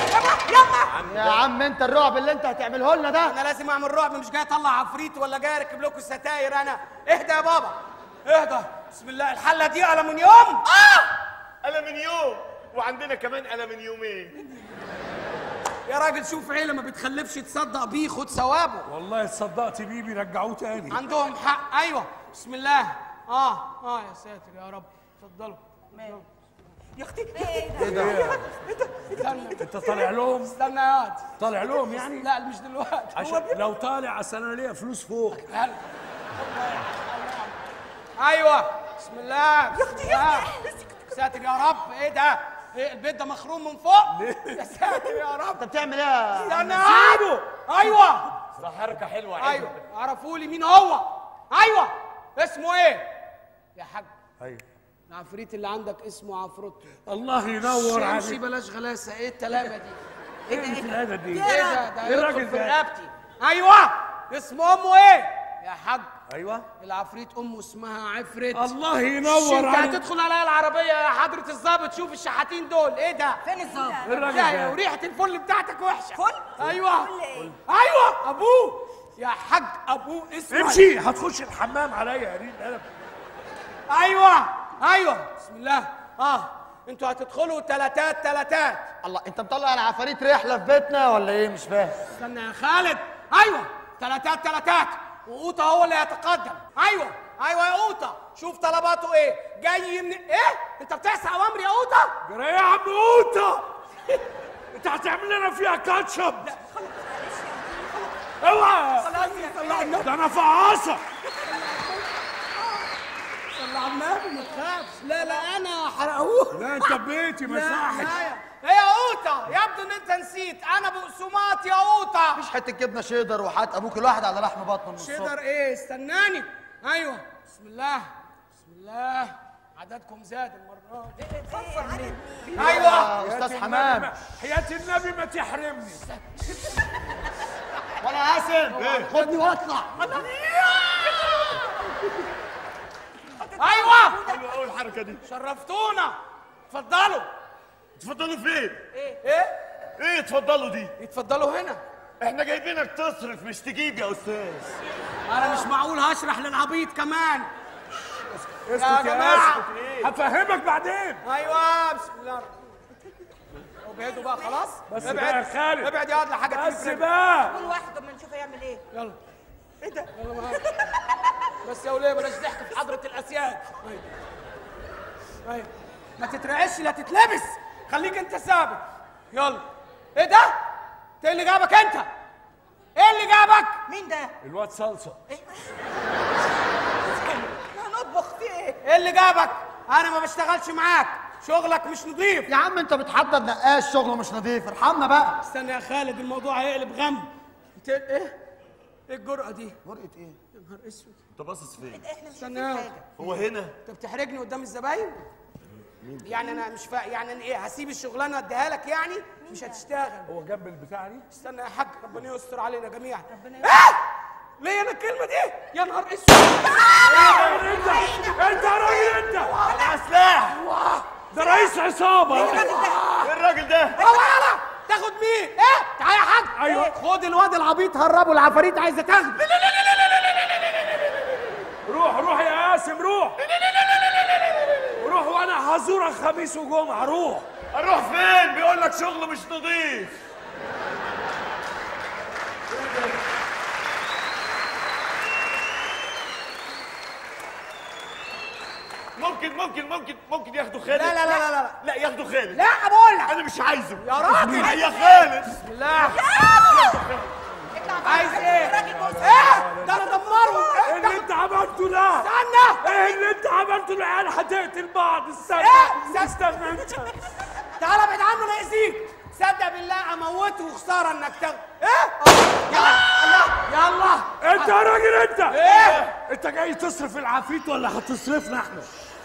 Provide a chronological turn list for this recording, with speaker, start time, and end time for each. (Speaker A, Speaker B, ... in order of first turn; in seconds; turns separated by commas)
Speaker A: 0.1-0.9, Speaker B: 0.9-1.4, Speaker C: 1.1-3.4, Speaker D: 3.2-10.7, Speaker A: 10.7-11.1, Speaker B: 11.6-14.3, Speaker D: 15.9-18.9, Speaker E: 18.9-21.0, Speaker D: 20.9-26.2, Speaker A: 25.9-26.2, Speaker A: 27.0-29.2, Speaker F: 27.4-27.9, Speaker C: 27.8-28.2, Speaker E: 27.8-28.5, Speaker D: 29.1-31.3, Speaker E: 29.5-30.6, Speaker E: 31.4-32.3, Speaker D: 31.9-33.6, Speaker E: 33.1-35.5, Speaker D: 35.5-35.8, Speaker D: 36.4-37.1, Speaker D: 38.2-40.5, Speaker F: 39.8-40.7, Speaker D: 41.1-45.6, Speaker E: 44.1-45.0, Speaker C: 45.5-47.2, Speaker D: 46.4-48.3, Speaker B: 48.5-49.8, Speaker D: 49.4-53.1, Speaker D: 53.8-54.1, Speaker D: 55.1-57.0, Speaker E: 57.1-58.4, Speaker D: 57.6-60.0, Speaker E: 60.5-62.8, Speaker A: 60.5-61.8, Speaker D: 61.4-66.1, Speaker E: 66.3-66.7, Speaker D: 66.8-73.4, Speaker E: 68.5-70.0, Speaker A: 73.4-74.1, Speaker F: 73.6-74.0, Speaker E: 74.0-74.8, Speaker D: 74.1-77.1, Speaker A: 76.2-76.6, Speaker F: 76.7-77.6, Speaker D: 77.7-80.8, Speaker E: 80.5-82.9, Speaker D: 83.9-88.9, Speaker C: 89.0-92.0, Speaker D: 92.1-102.2, Speaker E: 102.2-103.7, Speaker E: 104.7-106.5, Speaker F: 106.7-108.1, Speaker E: 108.4-109.1, Speaker D: 109.0-110.1, Speaker A: 109.2-109.9, Speaker E: 109.9-111.0, Speaker D: 111.5-112.0, Speaker D: 113.5-122.4, Speaker E: 116.5-118.2, Speaker C: 122.4-125.3, Speaker D: 125.0-131.9, Speaker A: 131.2-132.2, Speaker F: 131.5-132.7, Speaker D: 132.5-133.1, Speaker C: 132.6-134.1, Speaker E: 133.0-136.0, Speaker C: 138.0-139.8, Speaker D: 138.7-141.6, Speaker B: 138.8-139.1, Speaker A: 143.4-144.4, Speaker D: 143.6-144.2, Speaker B: 144.2-145.2, Speaker D: 145.2-146.2, Speaker D: 146.7-147.3, Speaker B: 148.0-148.9, Speaker D: 149.2-149.6, Speaker B: 150.0-150.9, Speaker D: 151.0-151.8, Speaker B: 152.2-154.8, Speaker D: 155.3-157.5, Speaker E: 158.0-161.2, Speaker D: 158.8-159.7, Speaker B: 159.5-160.1, Speaker D: 161.2-162.5, Speaker D: 163.8-167.1, Speaker F: 164.1-164.5, Speaker E: 164.9-166.0, Speaker E: 166.5-167.6, Speaker A: 167.5-168.8, Speaker D: 168.9-169.2, Speaker D: 170.0-170.7, Speaker A: 170.7-171.0, Speaker D: 171.6-174.1, Speaker D: 175.4-180.6, Speaker D: 181.2-182.1, Speaker D: 183.0-183.8, Speaker A: 183.9-184.3, Speaker E: 184.4-185.2, Speaker A: 185.3-185.6, Speaker A: 187.4-188.8, Speaker D: 188.8-192.5, Speaker C: 192.5-195.4, Speaker D: 195.4-198.4, Speaker D: 199.1-199.8, Speaker C: 199.8-200.4, Speaker D: 200.5-201.2, Speaker B: 201.3-202.1, Speaker A: 201.9-203.1, Speaker D: 202.3-202.9, Speaker B: 203.2-203.8, Speaker D: 203.8-205.2, Speaker D: 206.2-210.3, Speaker E: 210.3-211.3, Speaker D: 211.3-214.0, Speaker A: 213.3-213.7, Speaker D: 214.6-220.0, Speaker E: 217.0-219.6, Speaker A: 217.8-218.3, Speaker B: 219.6-220.6, Speaker D: 220.5-221.7, Speaker E: 221.3-222.9, Speaker A: 222.3-223.0, Speaker D: 222.3-223.3, Speaker B: 223.2-224.0, Speaker A: 224.0-224.3, Speaker D: 224.0-229.6, Speaker E: 226.6-226.9, Speaker B: 229.5-231.2, Speaker E: 231.9-233.4, Speaker B: 233.4-234.9, Speaker E: 235.0-237.5, Speaker B: 237.7-240.2, Speaker B: 249.2-252.6, Speaker D: 250.9-251.8, Speaker D: 252.5-253.3, Speaker B: 253.3-255.6, Speaker D: 254.0-254.8, Speaker D: 255.6-256.2, Speaker F: 256.1-257.0, Speaker B: 256.5-257.3, Speaker A: 257.7-259.5, Speaker D: 258.0-261.3, Speaker E: 258.6-262.3, Speaker D: 262.2-263.2, Speaker E: 262.8-267.2, Speaker D: 265.5-266.7, Speaker D: 267.8-274.8, Speaker A: 272.7-273.4, Speaker E: 272.8-273.5, Speaker E: 274.4-278.9, Speaker D: 275.5-276.1